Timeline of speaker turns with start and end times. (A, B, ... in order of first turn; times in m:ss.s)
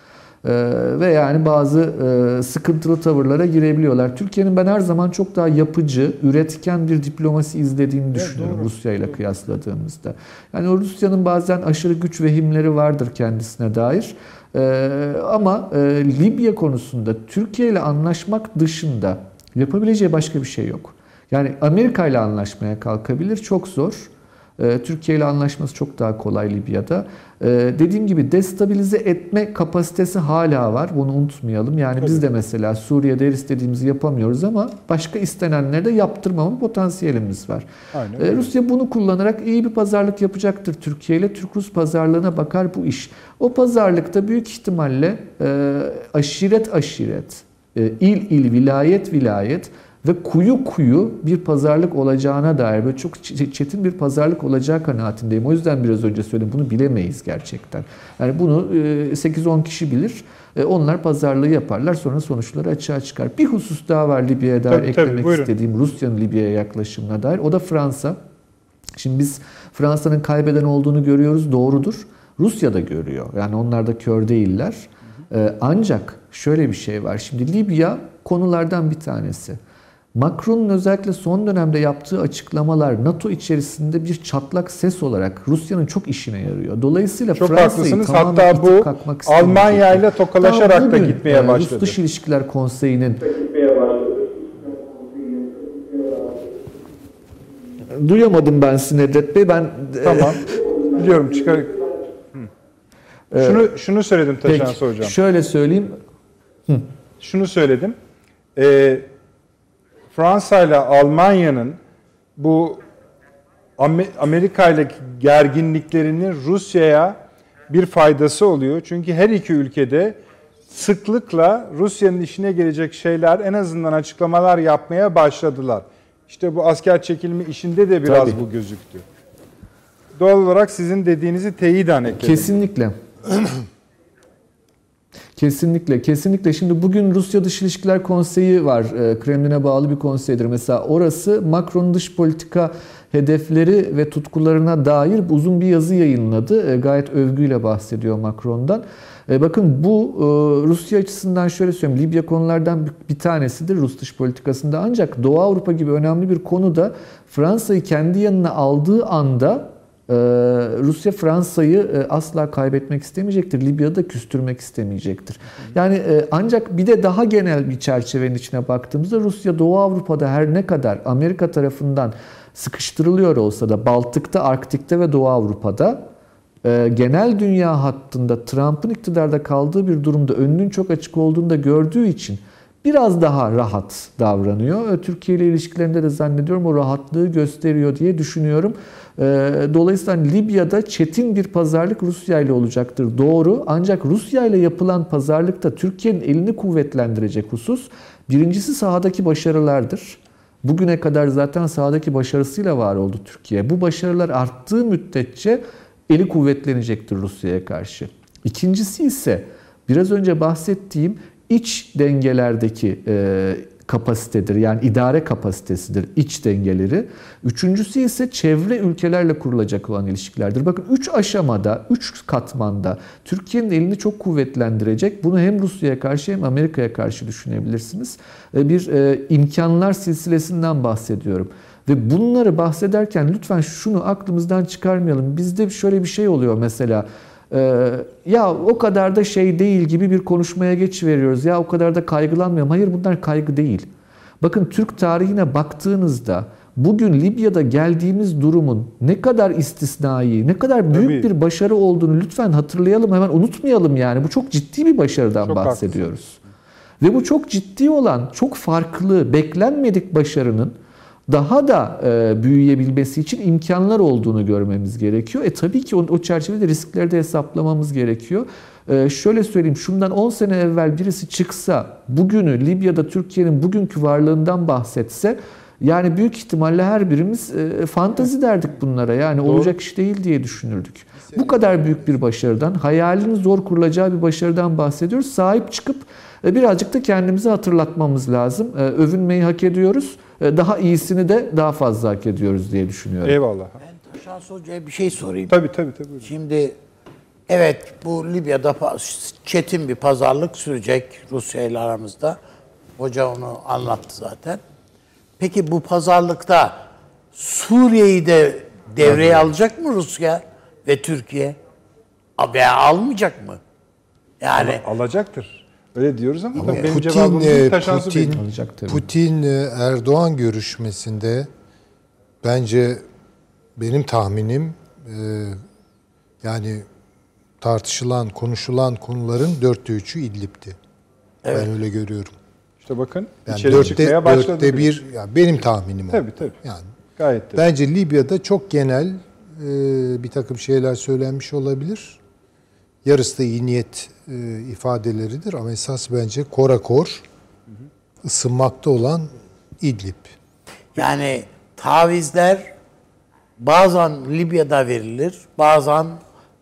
0:00.4-0:37.7 A
0:08.1-0:08.7 B
0:37.9-0:38.5 B
0:38.2-1:08.2 A
1:04.7-1:05.5 B
1:09.0-1:19.6 A
1:20.2-1:33.3 A
1:27.4-1:32.0 B
1:33.6-1:34.5 B
1:37.9-1:40.4 A
1:40.0-1:41.8 B
1:43.3-1:43.7 A
1:43.4-1:45.2 B
1:44.4-1:46.0 A
1:47.2-1:48.0 B
1:48.6-1:49.1 B
1:50.1-1:51.8 B
1:52.4-1:52.8 B
1:53.8-1:57.2 B
1:57.7-2:00.2 B
2:00.7-2:09.0 B
2:08.1-2:08.4 A
2:10.2-2:12.6 B
2:12.2-2:13.0 A
2:15.4-2:56.1 A
2:56.6-4:03.9 A
4:04.4-4:16.4 A
4:10.9-4:11.3 B
4:15.4-4:16.2 B
4:17.0-4:20.8 A
4:21.3-4:53.4 A
4:39.4-4:39.7 B
4:41.3-4:42.2 C
4:53.2-4:53.8 B
4:53.8-4:55.6 D
4:55.5-4:56.3 B
4:56.2-4:56.8 D
4:57.5-5:02.4 D
5:03.0-5:04.6 D
5:05.4-5:11.6 D
5:09.0-5:09.4 B
5:12.4-5:13.6 D
5:14.4-5:14.8 D
5:14.6-5:18.4 B
5:16.6-5:21.5 C
5:18.2-5:19.1 A
5:22.4-5:23.0 C
5:23.8-5:25.6 C
5:26.4-5:26.9 C
5:27.6-5:30.8 C
5:31.4-5:31.7 D
5:31.5-5:32.4 C
5:32.8-5:35.0 B
5:33.5-5:36.9 C
5:36.1-5:36.6 B
5:37.2-5:37.6 B
5:37.6-5:42.2 C
5:43.0-5:47.2 C
5:48.2-5:50.3 C
5:51.0-5:52.7 D
5:53.6-5:56.2 D